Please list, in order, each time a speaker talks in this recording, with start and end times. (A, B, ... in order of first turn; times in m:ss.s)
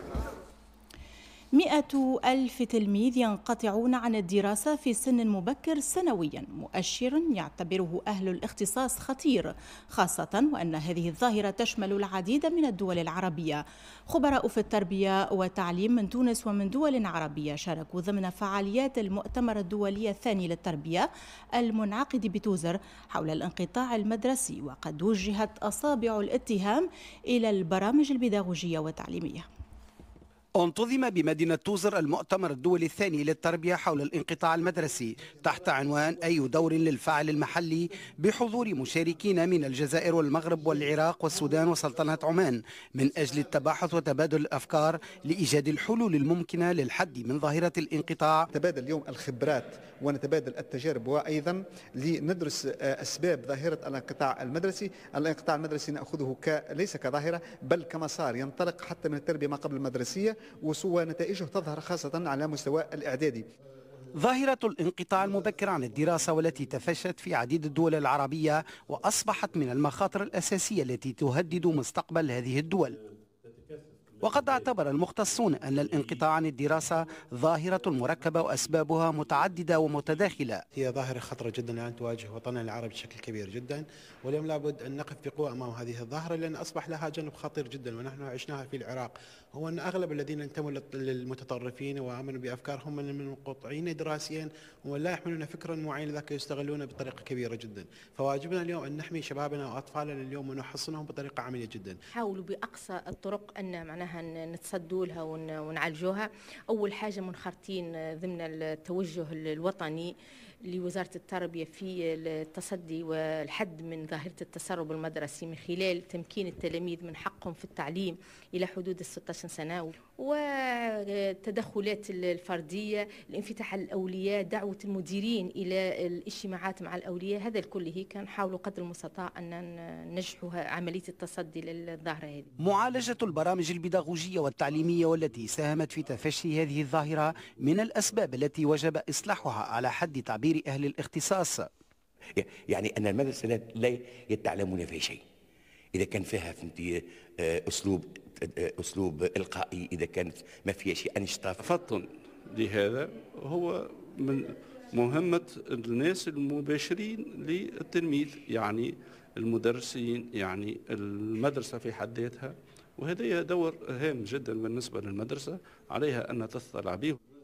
0:01.6-0:29.4 A
0:30.6-0:48.5 B
0:48.5-1:03.4 C
1:04.2-1:13.0 B
1:14.2-1:20.6 B
1:20.8-1:42.0 D
1:42.1-1:50.1 E
1:50.7-2:12.5 E
2:12.6-2:21.7 B
2:22.7-2:25.2 F
2:26.0-2:27.0 F
2:27.7-2:28.2 F
2:28.8-2:31.5 F
2:31.6-2:47.2 G